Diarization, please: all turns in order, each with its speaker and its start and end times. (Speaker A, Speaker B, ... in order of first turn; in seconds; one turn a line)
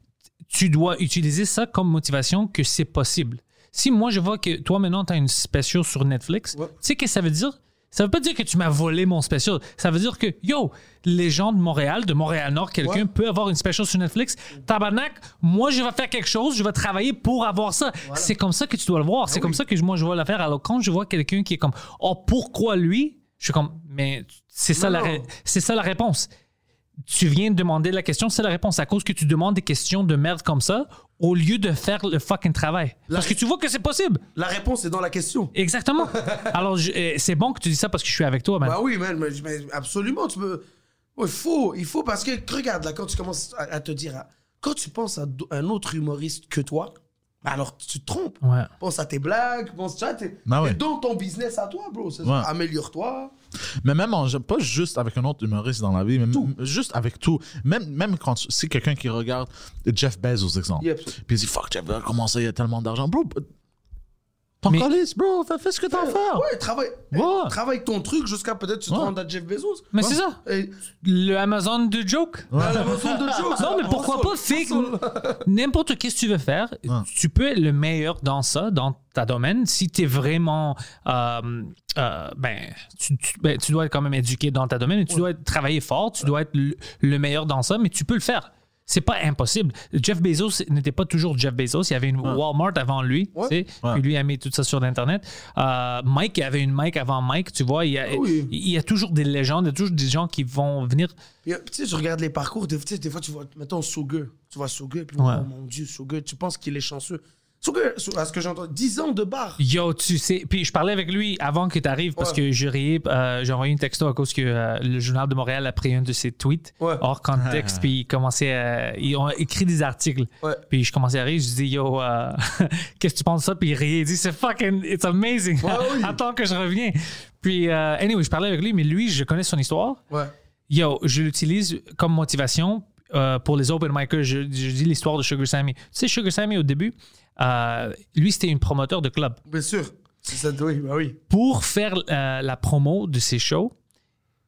Speaker A: 0.5-26.3
Speaker B: 18.1-18.3
Speaker B: 19.3-19.6
Speaker B: 24.7-25.3
Speaker A: 27.1-34.2
Speaker B: 33.1-33.4
Speaker B: 34.3-36.5
Speaker A: 35.5-38.8
Speaker B: 38.6-40.6
Speaker B: 41.1-53.3
Speaker A: 48.4-48.7
Speaker C: 50.5-50.8
Speaker C: 52.2-52.5
Speaker C: 53.8-63.4
Speaker B: 60.8-61.1
Speaker C: 64.6-66.4
Speaker B: 65.9-70.7
Speaker A: 67.1-67.5
Speaker C: 67.2-67.5
Speaker A: 69.9-70.4
Speaker A: 71.0-72.9
Speaker C: 72.5-73.5
Speaker B: 72.6-75.4
Speaker A: 73.6-101.1
Speaker B: 98.1-98.5
Speaker B: 101.4-109.6
Speaker A: 105.2-105.5
Speaker A: 109.6-130.0
Speaker C: 117.3-117.9
Speaker B: 125.6-126.2
Speaker A: 130.7-139.4
Speaker B: 139.5-141.2
Speaker A: 141.3-143.7